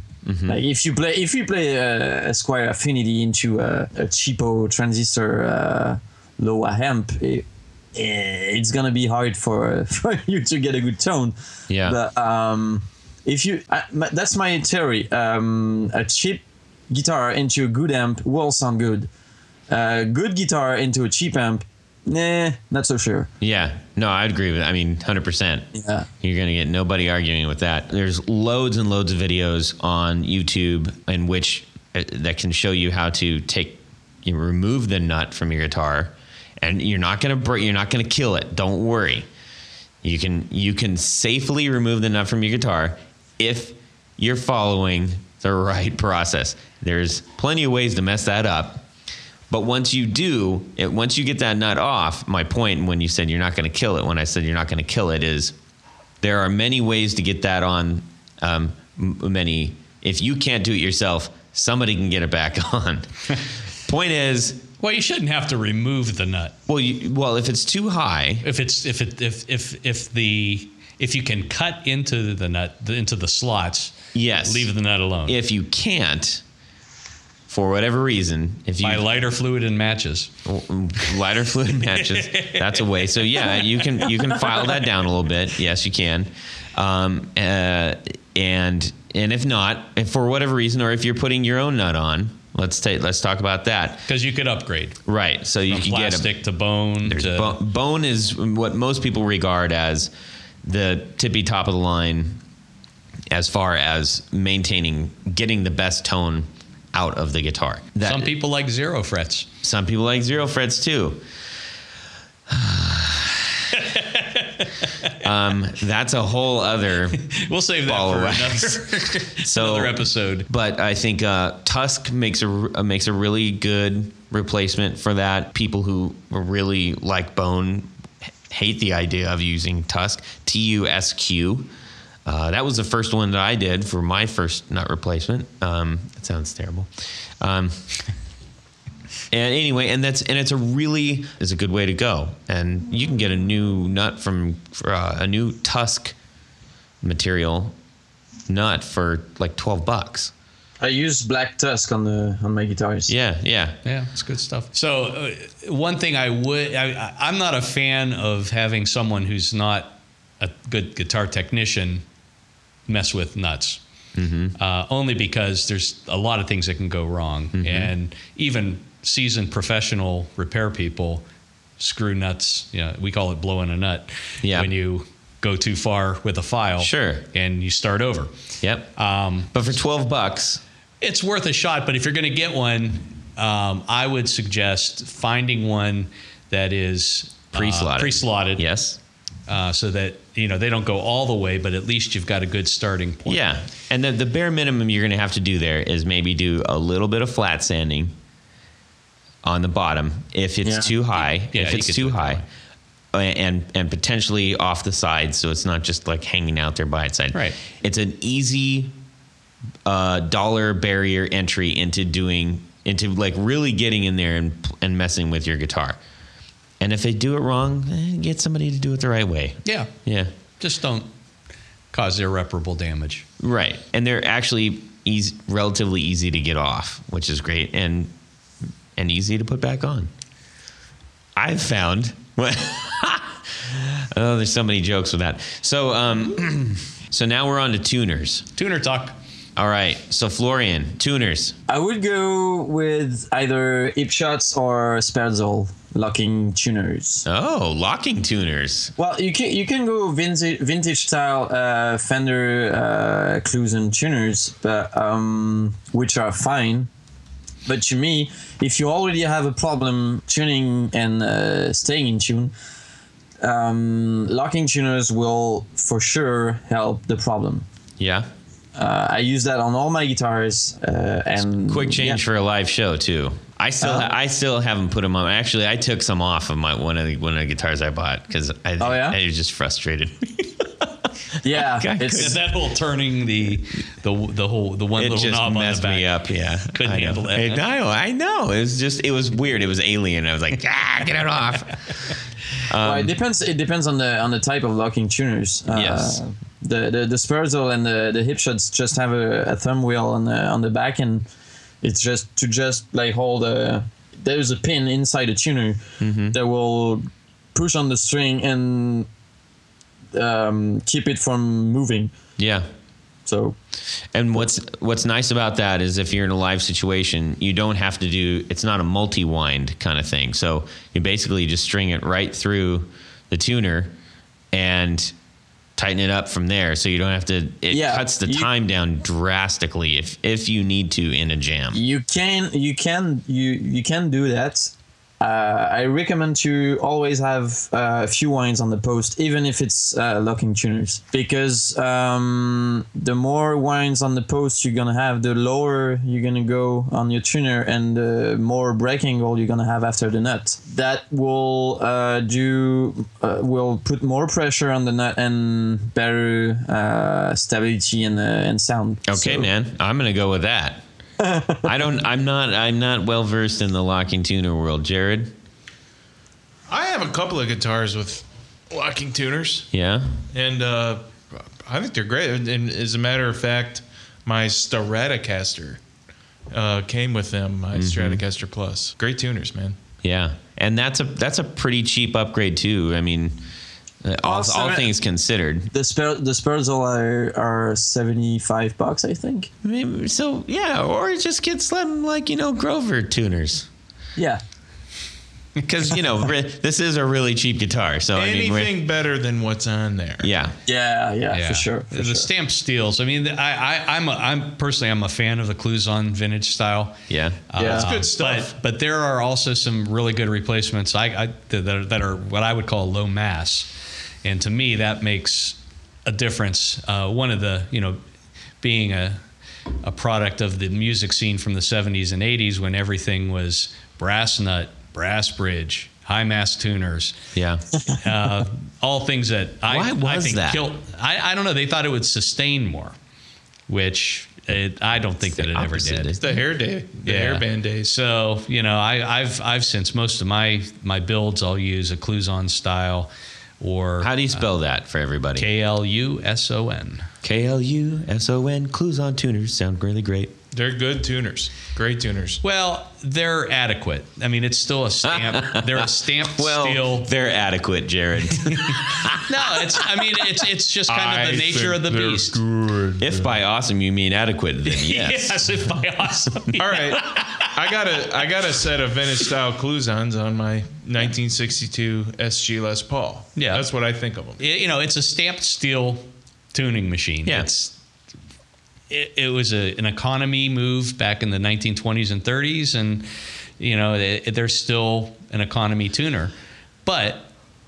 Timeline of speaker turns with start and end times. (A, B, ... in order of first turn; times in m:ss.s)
0:00.2-0:00.6 A
0:00.5-0:19.1 B
0:11.7-0:12.0 A
0:19.7-0:23.3 B
0:23.4-0:25.7 A
0:25.7-0:26.1 B
0:26.2-0:39.3 A
0:40.0-0:48.8 A
0:49.5-0:55.5 A
0:56.2-1:04.6 A
1:04.8-1:06.6 C
1:06.7-1:08.4 A
1:08.4-1:15.4 C
1:14.1-1:14.7 A
1:15.2-1:16.4 A
1:17.5-1:19.0 A
1:18.8-1:20.3 C
1:20.4-1:34.0 A
1:21.8-1:24.3 C
1:34.1-1:35.0 C
1:35.0-1:36.3 A
1:35.7-1:37.6 C
1:37.0-1:40.1 A
1:40.6-1:42.4 A
1:43.3-1:48.3 A
1:48.0-1:49.5 C
1:49.6-1:51.2 A
1:52.5-1:53.6 A
1:53.7-1:55.1 C
1:55.2-1:57.2 A
1:57.2-2:00.5 C
1:57.8-2:07.9 A
2:08.5-2:11.7 A
2:12.2-2:17.8 A
2:19.3-2:26.1 A
2:27.0-2:27.7 A
2:28.5-2:30.3 A
2:30.8-2:33.1 B
2:33.1-2:33.8 A
2:33.8-2:42.0 C
2:42.9-2:43.8 C
2:44.2-2:44.6 A
2:44.6-2:51.2 C
2:47.5-2:47.9 A
2:51.8-2:58.3 C
2:54.4-2:54.7 A
2:56.8-2:57.2 A
2:58.6-2:58.9 A
2:59.0-2:59.5 C
2:59.5-3:00.6 A
3:01.0-3:08.6 C
3:07.5-3:09.0 A
3:09.5-3:13.4 C
3:13.2-3:18.1 A
3:19.4-3:22.4 A
3:20.6-3:20.9 B
3:21.4-3:22.4 C
3:23.1-3:28.9 A
3:29.8-3:36.0 A
3:36.8-3:40.3 A
3:39.6-3:39.9 C
3:40.6-3:41.1 C
3:41.9-3:43.2 C
3:43.4-3:48.1 A
3:49.0-3:50.1 A
3:51.4-3:58.5 A
3:58.6-3:59.2 C
3:59.6-4:01.6 A
4:01.7-4:07.2 B
4:07.2-4:08.9 A
4:09.0-4:16.9 B
4:17.6-4:22.5 B
4:23.4-4:27.6 B
4:28.0-4:28.3 A
4:28.8-4:32.2 B
4:31.6-4:40.7 A
4:33.8-4:34.1 B
4:38.8-4:39.2 B
4:41.4-4:42.3 B
4:41.5-4:42.4 A
4:42.1-4:46.1 C
4:45.0-4:53.1 A
4:46.7-4:47.6 C
4:52.8-5:01.3 B
4:55.7-4:56.2 A
5:01.8-5:09.1 B
5:06.0-5:06.4 A
5:10.1-5:12.1 B
5:12.4-5:12.6 A
5:13.2-5:13.6 B
5:14.1-5:23.9 A
5:24.5-5:25.1 A
5:25.8-5:31.8 A
5:27.7-5:28.5 B
5:31.7-5:59.5 B
5:59.1-6:00.8 A
6:01.2-6:01.7 B
6:01.6-6:05.3 A
6:06.7-6:09.7 D
6:09.7-6:10.1 A
6:10.3-6:15.8 D
6:16.5-6:19.8 D
6:17.7-6:18.2 A
6:20.0-6:23.4 A
6:24.0-6:25.7 A
6:24.2-6:24.9 B
6:25.7-6:29.5 B
6:29.6-6:33.7 A
6:34.2-6:34.4 B
6:35.6-6:38.7 A
6:38.1-6:40.3 D
6:40.2-6:40.6 A
6:40.6-6:42.3 B
6:41.3-6:53.7 C
6:47.1-6:47.5 A
6:47.6-6:47.8 B
6:47.6-6:48.5 D
6:54.2-6:58.0 C
6:58.6-6:59.2 C
6:59.8-7:07.2 C
7:07.3-7:07.6 A
7:07.9-7:13.0 C
7:09.7-7:10.6 A
7:13.7-7:16.1 C
7:15.2-7:16.2 A
7:16.2-7:17.9 D
7:17.0-7:24.4 C
7:24.0-7:25.5 A
7:25.4-7:27.1 C
7:27.2-7:30.3 A
7:30.5-7:32.4 D
7:32.4-7:37.1 C
7:35.0-7:40.1 A
7:38.4-7:42.4 C
7:40.9-7:43.3 D
7:43.0-7:45.4 A
7:44.6-7:47.5 C
7:46.6-7:54.4 D
7:53.4-7:53.6 C
7:54.4-7:57.8 C
7:58.9-8:03.1 C
8:03.6-8:06.3 C
8:06.8-8:07.3 C